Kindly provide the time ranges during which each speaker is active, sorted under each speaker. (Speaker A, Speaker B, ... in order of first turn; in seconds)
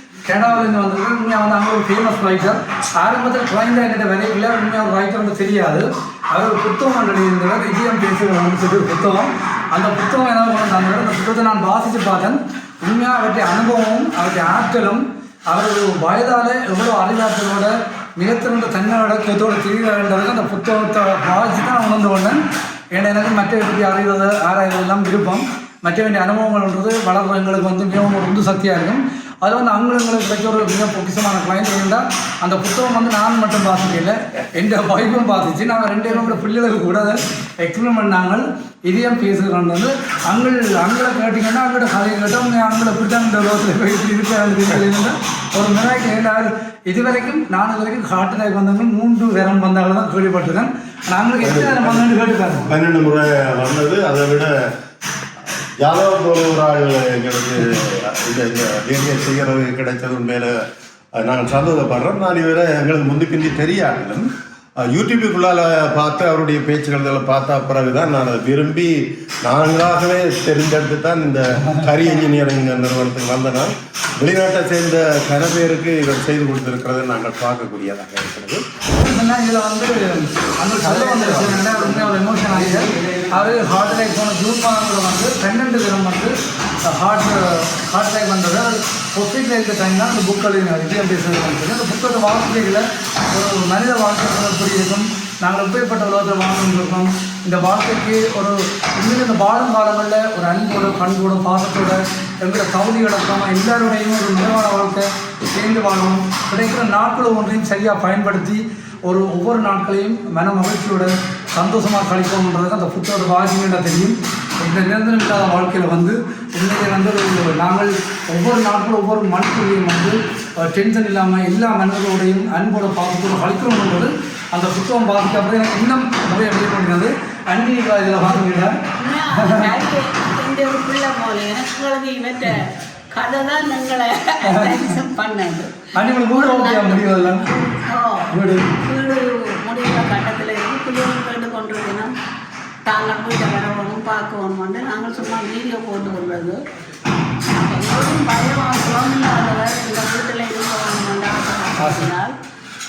Speaker A: 0.2-22.4, 22.9-52.8, 78.9-129.7, 134.4-134.9, 135.9-137.5, 138.3-138.7, 151.8-152.1
Speaker B: 51.4-52.1, 52.7-54.5, 55.8-60.5, 61.2-64.3, 64.9-78.6, 80.9-81.8
Speaker C: 129.0-142.1, 142.8-146.6, 147.5-152.3